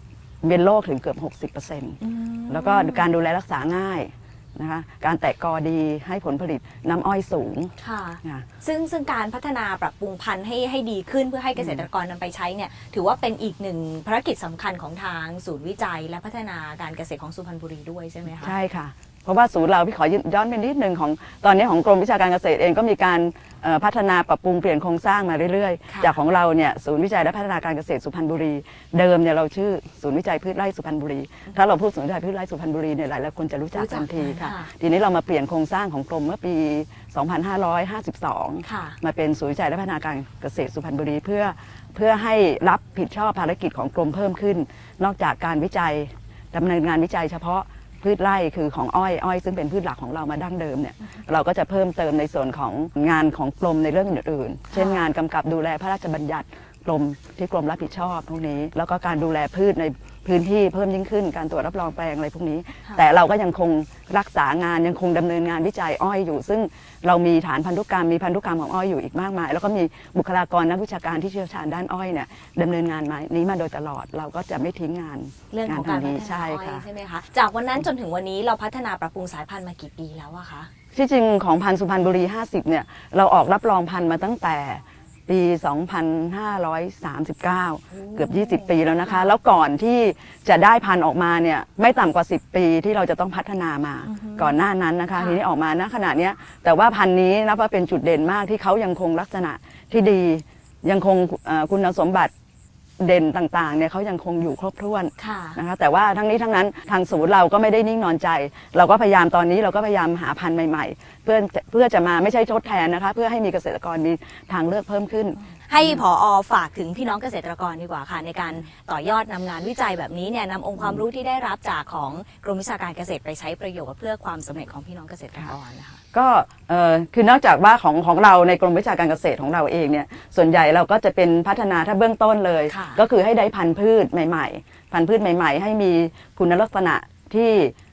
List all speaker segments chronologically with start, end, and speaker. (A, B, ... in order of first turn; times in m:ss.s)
0:00.4-0:08.5 A
0:02.0-0:03.1 B
0:07.8-0:18.6 B
0:11.6-0:11.9 A
0:18.3-1:16.8 A
0:25.9-0:26.2 B
0:33.7-0:34.7 B
0:38.6-0:39.0 B
0:54.7-0:55.0 B
1:15.5-1:20.7 B
1:20.9-1:42.3 A
1:27.9-1:29.3 B
1:34.1-1:34.6 B
1:35.1-1:35.4 B
1:43.0-1:56.0 A
1:45.2-1:45.6 B
1:55.6-2:06.0 B
2:06.1-2:17.7 A
2:12.7-2:13.0 B